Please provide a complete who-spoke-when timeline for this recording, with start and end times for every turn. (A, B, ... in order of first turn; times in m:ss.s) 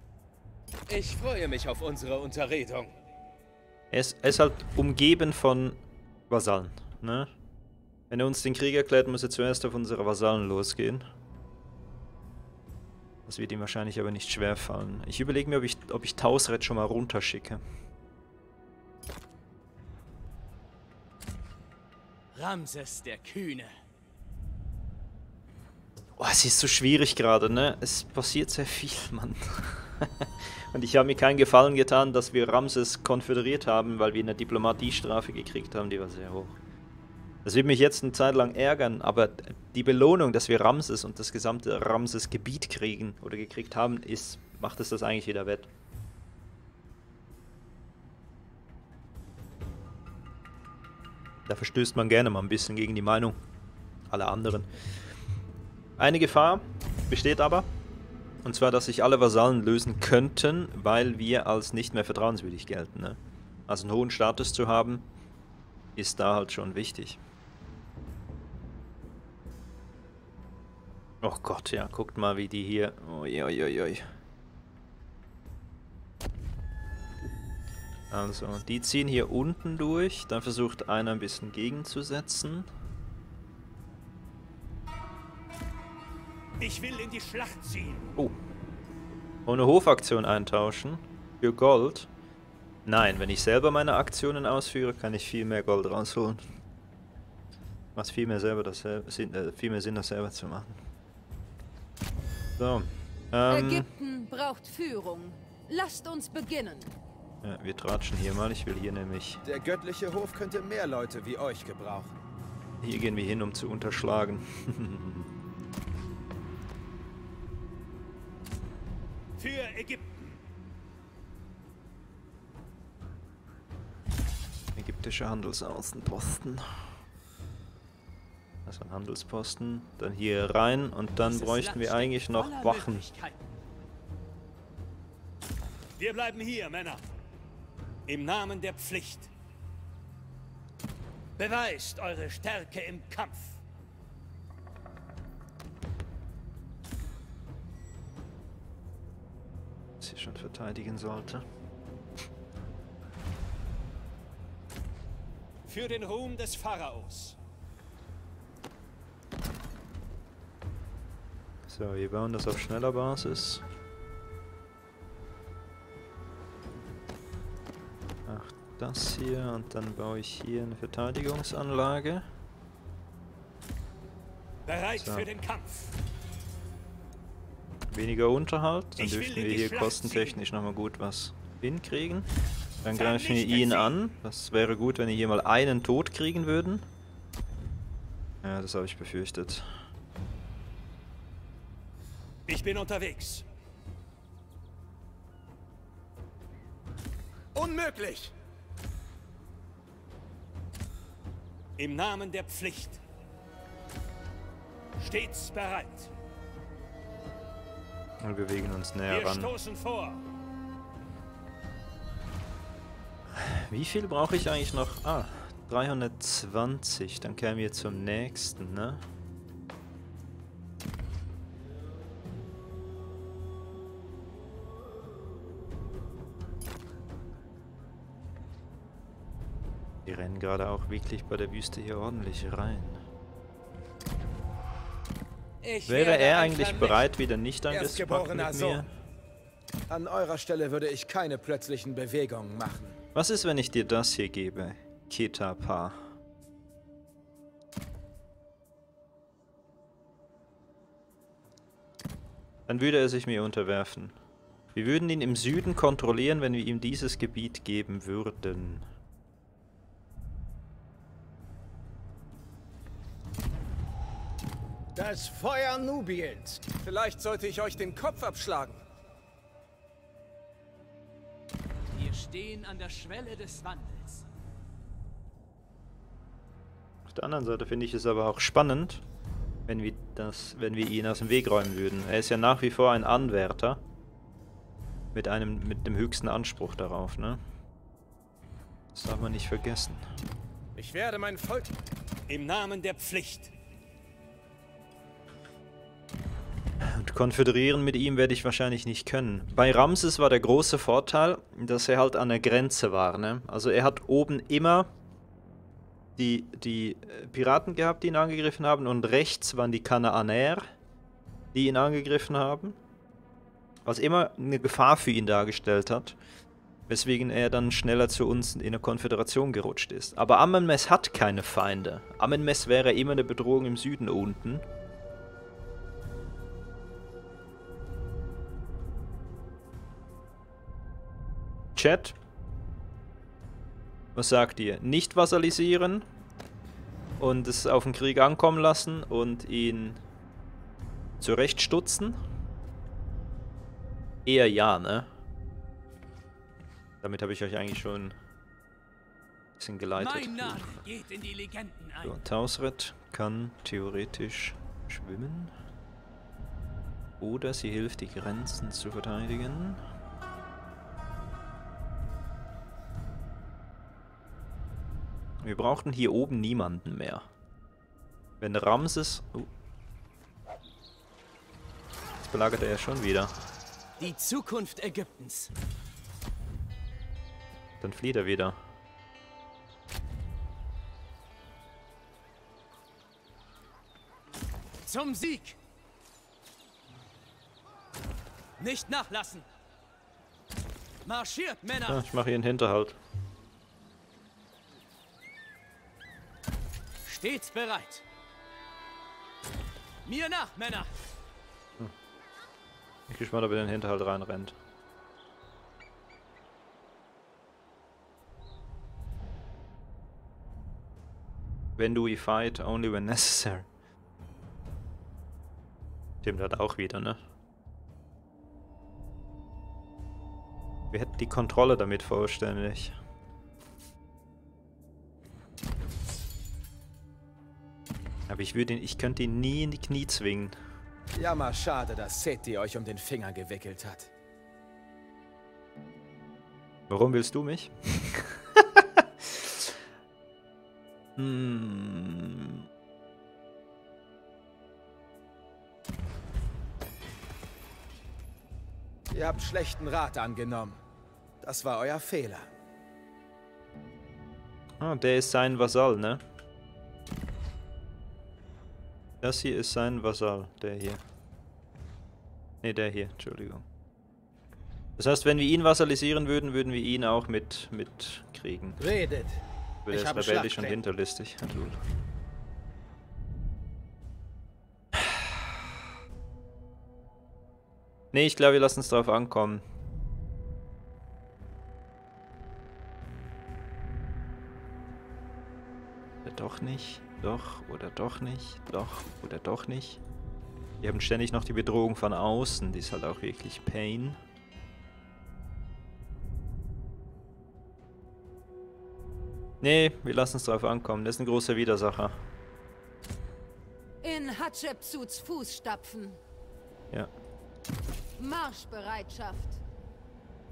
0:00.9-0:02.9 A
0:03.9-0:07.3 B
0:08.1-0:11.1 B
0:13.3-0:17.6 B
0:22.3-0:23.7 A
0:26.2-0:36.6 B
0:37.4-0:45.7 B
0:51.5-0:53.4 B
0:54.1-0:54.7 B
0:56.0-0:57.7 B
0:58.4-1:05.1 B
1:06.0-1:07.2 B
1:11.2-1:14.1 B
1:18.1-1:22.7 B
1:26.6-1:28.1 C
1:29.5-1:32.1 B
1:32.9-1:36.4 B
1:38.0-1:40.8 B
1:42.6-1:43.9 B
1:43.5-1:47.0 D
1:47.4-1:49.4 B
1:49.4-1:52.1 E
1:52.8-1:55.3 B
1:59.4-2:00.4 C
2:04.8-2:06.7 B
2:08.7-2:13.1 B
2:11.2-2:13.4 A
2:16.0-2:17.0 C
2:18.1-2:19.3 C
2:21.4-2:23.6 C
2:30.0-2:31.4 B
2:35.7-2:37.4 C
2:41.7-2:43.6 B
2:48.3-2:52.2 B
2:54.7-2:55.9 C
2:55.0-2:55.3 B
2:57.9-3:02.3 B
2:59.0-3:00.4 C
3:02.8-3:06.8 B
3:02.9-3:04.0 C
3:08.4-3:09.7 B
3:12.5-3:13.4 C
3:17.6-3:18.3 E
3:21.8-3:23.0 C
3:25.0-3:26.1 C
3:28.2-3:29.5 B
3:29.1-3:30.2 C
3:33.3-3:39.0 B
3:50.0-3:53.0 B
3:55.6-3:57.0 A
3:55.9-3:58.9 B
3:57.7-3:58.8 E
3:59.9-4:03.0 E
4:03.2-4:06.0 B
4:12.7-4:14.2 B
4:14.8-4:18.8 B
4:25.0-4:28.8 E
4:31.9-4:34.2 A
4:37.1-4:39.0 B
4:39.7-4:43.8 B
4:45.1-4:47.4 B
4:48.9-4:50.0 B
4:50.8-4:51.7 E
4:52.3-4:53.5 C
4:56.8-5:04.9 B
5:06.2-5:10.7 B
5:11.5-5:12.8 B
5:13.9-5:16.2 B
5:16.9-5:24.6 B
5:31.8-5:32.2 B
5:34.2-5:36.1 B
5:37.2-5:40.0 B
5:41.2-5:42.2 B
5:44.3-5:45.1 B
5:47.0-5:48.2 B
5:49.6-5:50.8 B
5:50.0-5:52.2 A
5:52.0-5:55.5 B
5:57.2-5:59.8 B
6:05.4-6:07.3 B
6:08.4-6:09.5 B
6:12.2-6:13.3 B
6:14.0-6:15.5 A
6:17.8-6:18.6 B
6:24.9-6:25.6 A
6:28.6-6:29.5 A
6:31.0-6:32.0 A
6:31.9-6:33.0 B
6:37.1-6:38.0 A
6:40.0-6:40.9 A
6:43.1-6:44.6 B
6:51.8-6:53.7 B
6:56.2-6:57.2 B
7:00.9-7:03.0 B
7:08.3-7:10.6 B
7:11.2-7:14.1 E
7:16.9-7:19.7 B
7:21.2-7:22.6 B
7:29.1-7:30.8 E
7:31.4-7:32.5 E
7:34.8-7:36.2 B
7:39.2-7:41.0 B
7:42.6-7:43.7 B
7:45.0-7:48.8 B
7:48.8-7:49.4 E
7:49.9-7:51.8 B
7:49.9-7:50.7 E
7:55.0-7:55.4 B
7:58.1-7:59.6 B
8:06.2-8:10.0 B
8:10.8-8:14.2 B
8:19.6-8:22.2 B
8:24.0-8:26.2 D
8:28.2-8:29.6 D